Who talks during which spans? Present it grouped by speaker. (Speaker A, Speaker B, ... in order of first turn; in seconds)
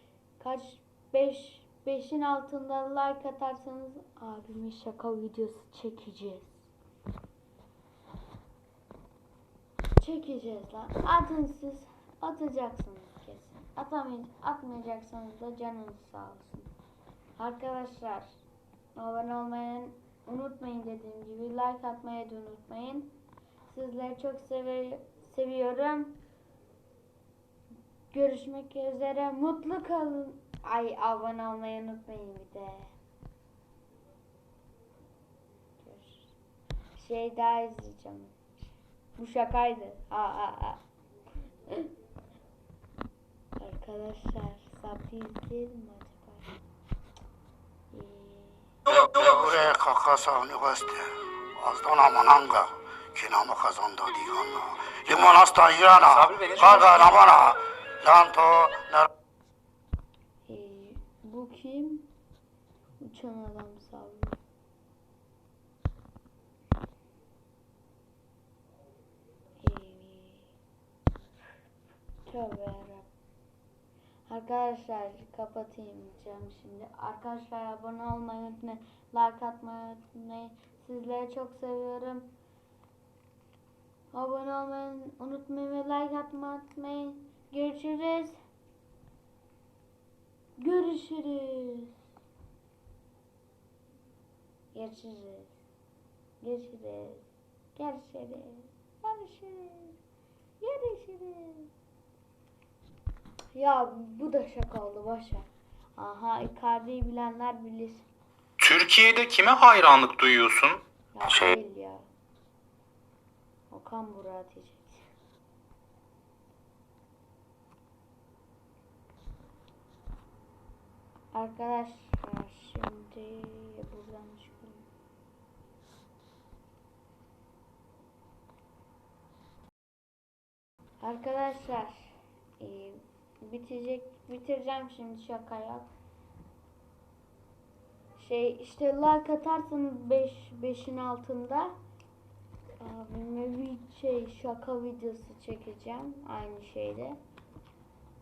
Speaker A: 0.4-6.7, 10.0-16.7, 17.4-18.4, 18.9-23.1, 23.7-26.2, 28.1-32.9, 35.8-36.3, 37.0-38.3, 39.2-40.8, 43.6-46.5, 47.9-48.7, 60.5-62.1, 63.0-64.4, 69.6-70.5, 72.2-73.1, 74.3-82.3, 84.1-88.4, 90.6-92.0, 94.7-95.6, 96.4-100.0, 100.6-101.7, 103.5-108.0, 111.1-112.0, 113.7-115.1, 121.3-124.8, 131.0-135.9, 138.2-141.7, 142.8-147.2
Speaker B: 48.9-59.1
Speaker C: 56.1-57.1, 108.6-110.8